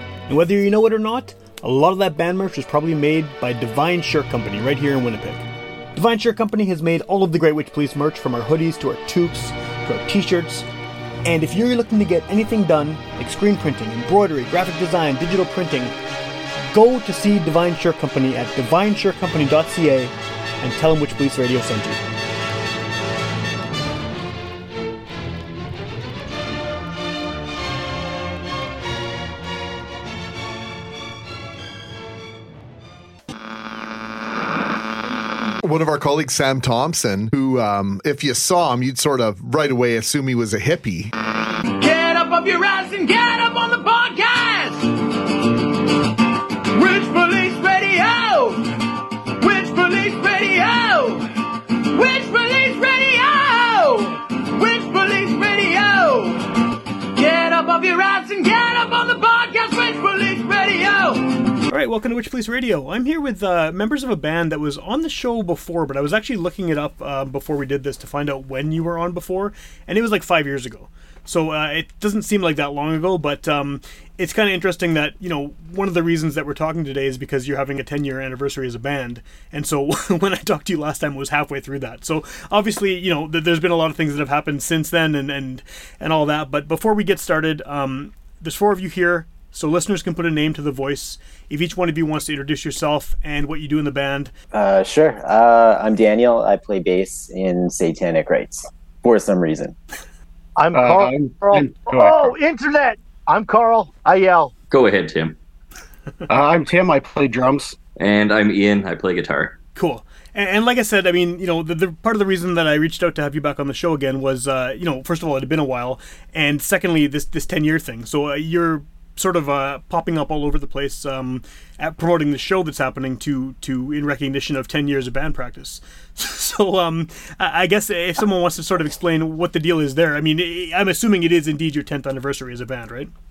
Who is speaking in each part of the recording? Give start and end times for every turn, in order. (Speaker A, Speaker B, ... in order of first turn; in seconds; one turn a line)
Speaker A: 0.3-5.4
Speaker A: 5.9-10.7
Speaker A: 11.2-15.9
Speaker A: 16.7-22.0
Speaker B: 35.6-41.1
Speaker C: 41.8-44.9
Speaker C: 46.7-48.7
Speaker C: 49.4-51.3
Speaker C: 51.9-56.4
Speaker C: 57.1-61.3
Speaker A: 61.7-94.3
Speaker D: 94.5-99.7
Speaker E: 100.6-104.5
Speaker F: 100.7-102.3
Speaker G: 104.7-105.4
Speaker F: 106.3-107.8
Speaker G: 108.0-109.6
Speaker A: 109.7-133.1